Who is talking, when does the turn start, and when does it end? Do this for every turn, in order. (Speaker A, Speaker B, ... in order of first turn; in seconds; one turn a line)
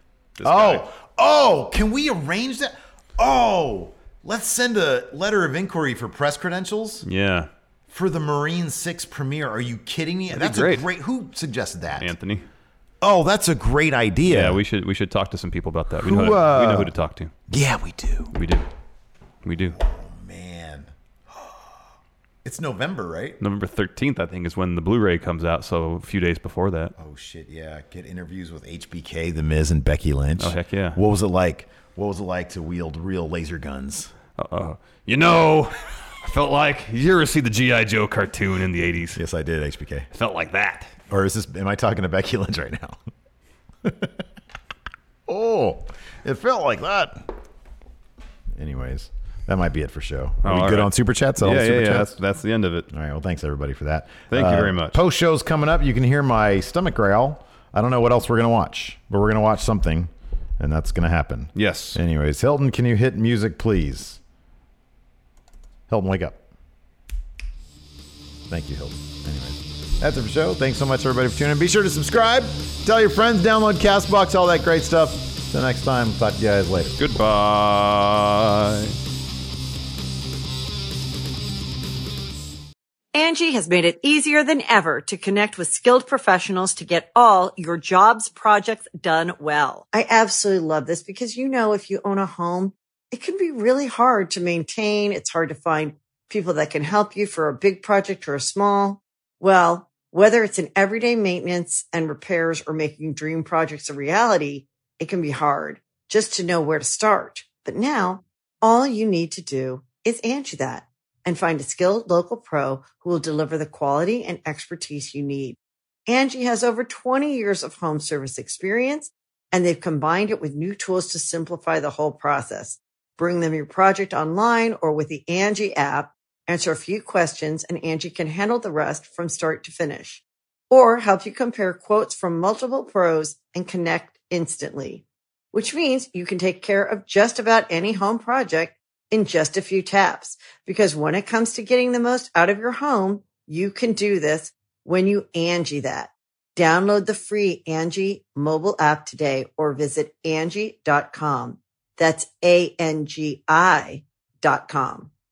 Speaker A: 0.4-0.8
Speaker B: 0.4-7.0
Speaker A: 7.0-7.5
Speaker B: 7.9-12.1
Speaker A: 10.3-10.8
Speaker A: 12.0-12.4
Speaker B: 13.0-14.6
Speaker A: 14.2-17.3
Speaker B: 16.0-16.9
Speaker B: 17.5-18.3
Speaker A: 18.3-18.7
Speaker A: 19.4-19.8
Speaker B: 19.7-21.6
Speaker B: 22.4-23.4
Speaker A: 23.4-26.9
Speaker B: 27.0-34.1
Speaker A: 30.4-31.0
Speaker A: 34.4-39.2
Speaker B: 39.1-40.1
Speaker A: 40.1-41.0
Speaker B: 41.1-43.0
Speaker B: 43.8-44.1
Speaker B: 45.3-47.3
Speaker B: 48.5-52.1
Speaker A: 50.4-52.9
Speaker B: 52.9-64.2
Speaker A: 54.3-55.0
Speaker A: 61.5-62.0
Speaker B: 65.9-66.4
Speaker B: 68.5-77.0
Speaker A: 77.0-79.0
Speaker C: 83.1-155.1